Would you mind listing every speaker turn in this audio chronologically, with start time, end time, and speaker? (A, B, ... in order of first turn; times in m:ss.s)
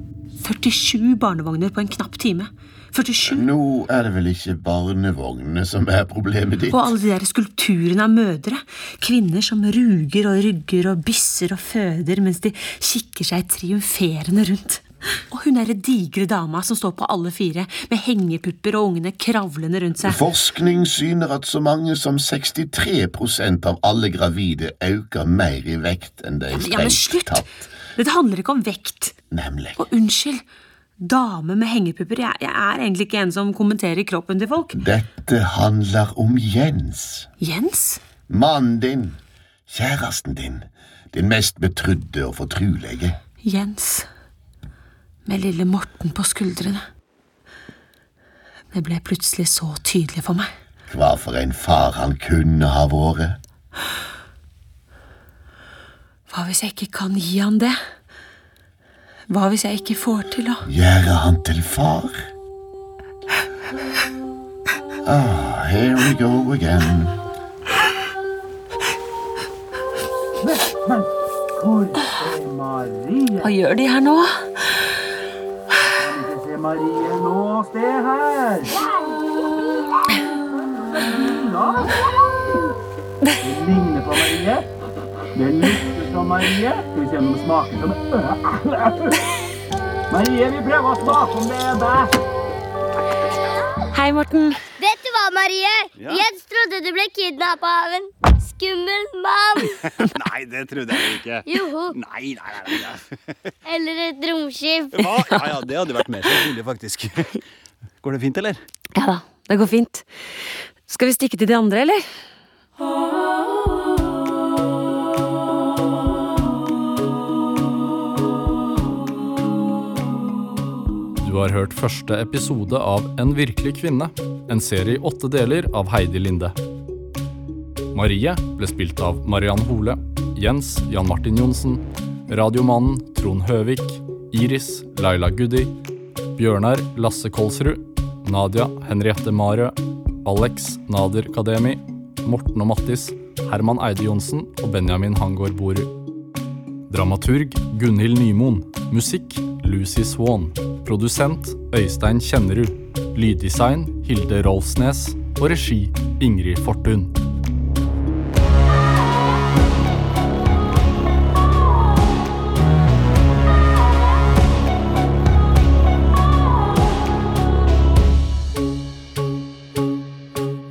0:00.4-0:03.4 A
0:03.2-0:06.9 B
0:06.7-0:20.2 A
0:20.0-0:27.5 B
0:26.5-0:29.2 A
0:29.3-0:29.8 B
0:29.8-0:30.4 A
0:31.0-0:34.8 A
0:34.7-0:37.3 B
0:37.4-0:38.0 A
0:38.3-0:43.2 B
0:43.4-0:44.1 A
0:45.3-0:46.8 A
0:48.7-0:50.5 A
0:50.9-0:53.4 B
0:56.3-0:57.8 A
0:59.3-1:00.6 A
1:00.6-1:02.3 B
1:05.0-1:07.2 B
1:10.8-1:11.0 C
1:11.6-1:13.4 C
1:13.4-1:14.6 A
1:16.0-1:18.7 C
1:21.2-1:21.9 C
1:23.4-1:24.6 C
1:25.3-1:29.1 C
1:30.1-1:32.1 C
1:33.9-1:34.6 A
1:34.8-1:39.8 D
1:36.0-1:36.3 E
1:40.0-1:43.0 E
1:41.5-1:42.0 D
1:43.7-1:45.2 D
1:44.9-1:47.4 E
1:48.0-1:48.6 E
1:49.0-1:50.1 A
1:50.9-1:52.0 A
2:01.2-2:06.6 F
2:07.9-2:15.7 F
2:16.4-2:25.9 F
2:26.9-2:37.1 F